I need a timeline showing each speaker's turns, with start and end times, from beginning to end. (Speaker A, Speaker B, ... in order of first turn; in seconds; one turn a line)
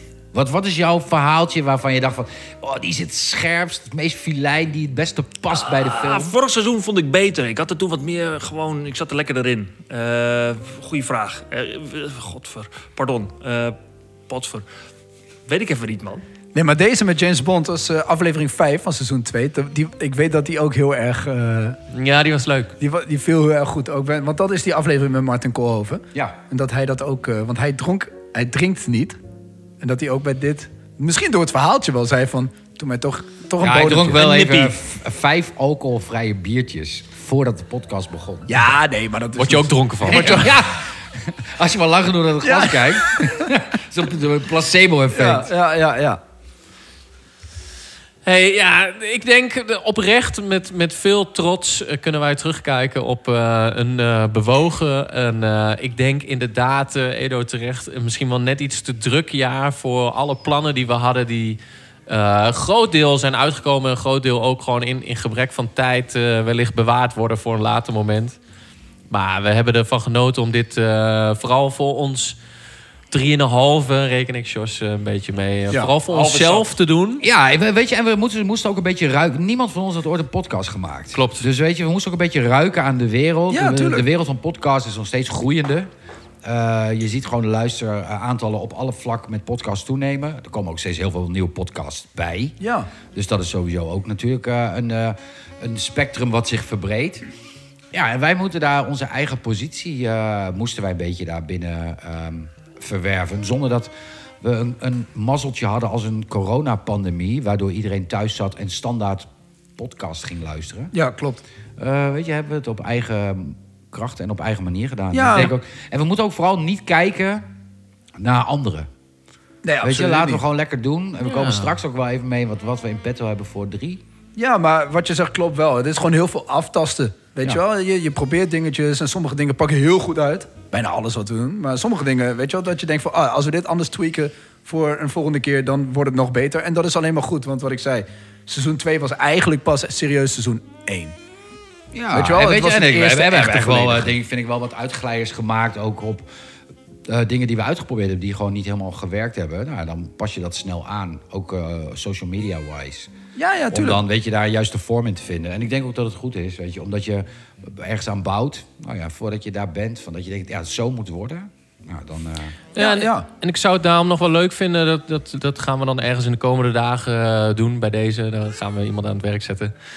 Speaker A: 0.3-6.3
Speaker B: 5.6-13.8
Speaker B: 14.3-14.7
Speaker B: 15.5-16.2
Speaker C: 16.5-21.8
Speaker D: 21.9-22.8
Speaker C: 22.8-29.2
Speaker C: 29.8-34.2
Speaker A: 33.6-38.6
Speaker B: 34.1-34.7
Speaker C: 38.5-40.5
Speaker D: 39.4-40.5
Speaker A: 40.1-45.5
Speaker C: 42.4-43.5
Speaker C: 45.1-46.2
Speaker D: 48.2-68.4
Speaker D: 69.1-72.4
Speaker D: 73.1-77.2
Speaker B: 76.1-76.7
Speaker A: 77.2-85.9
Speaker D: 81.1-81.5
Speaker C: 83.5-84.1
Speaker A: 86.4-92.6
Speaker C: 92.6-92.9
Speaker A: 93.1-97.3
Speaker A: 97.9-110.9
Speaker C: 110.9-111.4
Speaker A: 111.8-117.5
Speaker C: 115.1-115.5
Speaker A: 118.2-118.9
Speaker C: 119.6-120.4
Speaker A: 119.8-124.0
Speaker D: 121.2-121.8
Speaker C: 124.4-141.2
Speaker A: 141.9-146.3
Speaker C: 142.1-144.1
Speaker A: 147.1-153.1
Speaker C: 153.4-154.0
Speaker A: 153.7-162.6
Speaker C: 162.8-163.3
Speaker D: 162.8-169.7